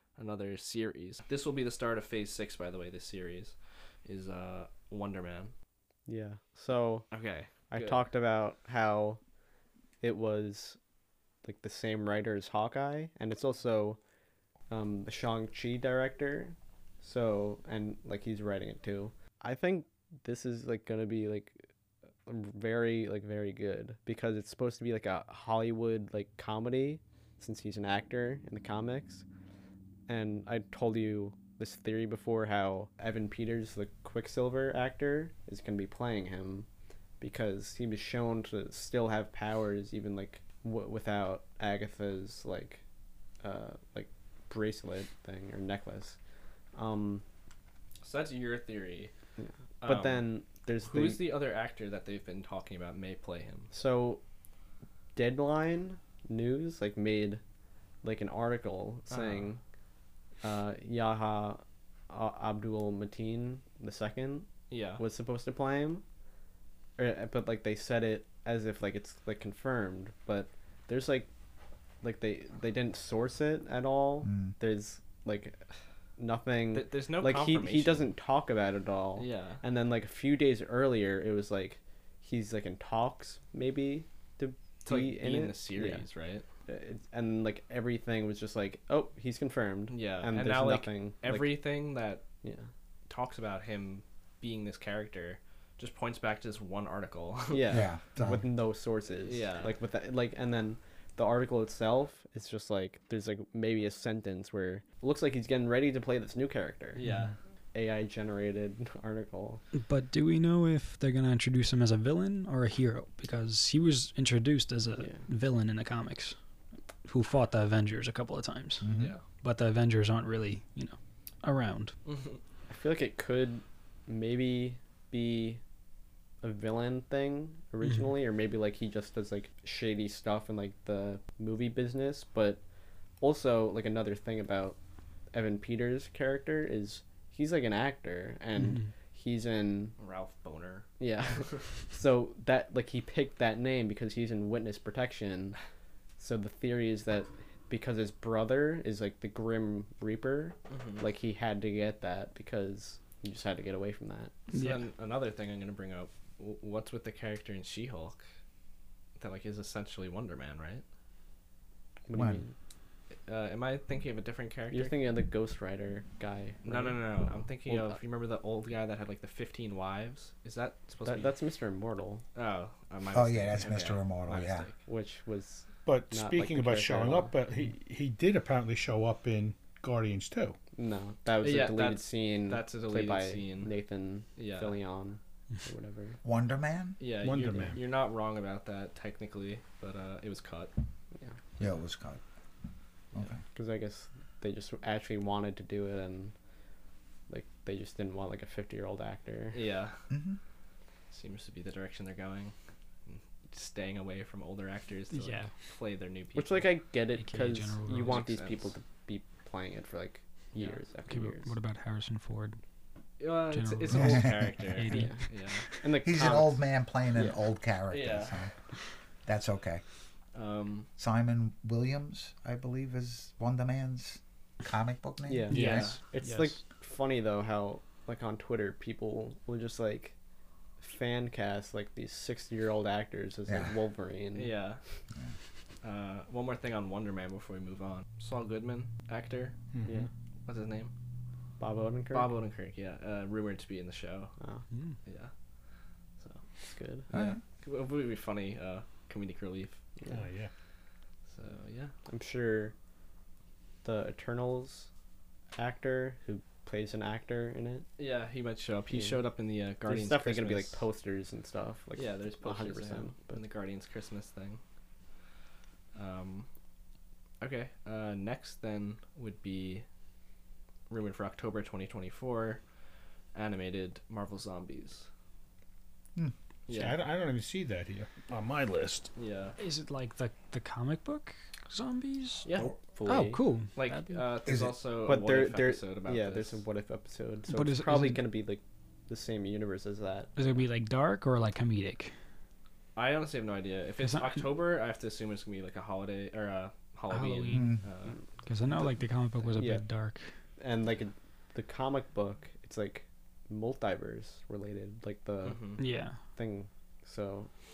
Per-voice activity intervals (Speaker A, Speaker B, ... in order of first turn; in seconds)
Speaker A: 0.1-5.5, 7.1-8.1, 48.0-49.1, 49.8-50.3, 50.8-53.7, 59.1-59.5, 64.7-65.0, 76.7-78.1, 79.2-79.6, 84.8-86.5, 89.9-92.2, 93.1-97.9, 99.2-99.8, 106.9-107.3, 118.9-119.2, 122.1-122.4, 140.0-141.8, 150.7-151.0, 154.5-158.2, 159.2-160.8, 163.3-165.0, 166.6-171.3, 172.3-174.8, 181.4-183.7, 184.4-184.8, 187.0-190.7, 199.5-200.0, 201.1-202.6, 203.1-206.8, 208.0-208.7, 210.6-210.8, 213.2-215.7, 217.9-218.5, 220.3-220.9, 225.5-226.0, 234.3-234.8, 235.8-239.6, 240.5-240.9, 242.1-244.4, 245.0-245.3, 246.2-246.4, 247.1-249.8, 251.3-251.9, 258.0-260.9, 262.0-264.6, 265.9-266.5, 267.4-269.9, 270.9-272.6, 273.3-275.1, 276.7-277.0, 279.1-279.6, 282.5-282.7, 283.8-286.6, 293.0-298.2, 299.4-299.6, 305.4-305.9
Speaker B: 6.1-7.1, 7.7-9.2, 10.0-10.8, 11.4-14.0, 14.7-21.6, 22.3-29.2, 30.1-36.7, 37.2-42.8, 43.4-46.2, 46.7-47.2, 49.4-51.4, 53.7-54.2, 55.1-57.4, 58.0-59.6, 60.4-66.0, 67.0-71.3, 72.0-75.7, 76.2-86.1, 86.7-91.6, 92.4-92.7, 97.5-107.0, 107.7-109.6, 122.7-125.6, 126.4-132.6, 133.2-134.8, 135.3-140.0, 141.0-145.6, 146.2-154.3, 162.1-162.5, 164.7-168.0, 171.1-172.2, 174.9-177.4, 180.8-186.2, 193.5-196.3, 197.3-199.6, 206.3-211.5, 214.9-216.6, 225.3-230.1, 230.8-234.6, 241.6-242.3, 244.4-244.7, 246.6-247.1, 252.1-252.8, 253.8-254.9, 255.5-257.9, 258.9-259.2, 259.8-263.4, 282.5-283.4, 285.0-290.3, 299.6-299.8, 300.6-305.8, 306.4-307.5
Speaker C: 74.2-74.5, 97.7-98.5, 118.8-119.1, 162.1-162.4, 173.1-174.7, 186.2-187.0, 191.6-192.2, 193.1-193.4, 200.1-200.4, 213.9-214.4, 216.0-218.6, 219.3-219.8, 221.0-225.5, 233.5-233.8, 247.1-247.4, 284.5-284.8, 297.5-297.8
Speaker D: 109.8-116.4, 117.0-122.0, 127.8-128.1, 138.6-138.9, 154.5-154.8, 205.1-205.5, 207.2-208.2, 211.1-212.6, 213.5-215.9, 225.5-226.6, 244.7-245.0, 279.6-282.5, 283.1-284.2, 287.5-288.3, 290.4-292.1, 294.1-294.4, 297.1-297.7, 298.5-300.3, 305.8-306.2
Speaker E: 175.9-180.6, 187.2-187.8, 239.7-240.1, 250.1-250.5, 276.7-279.1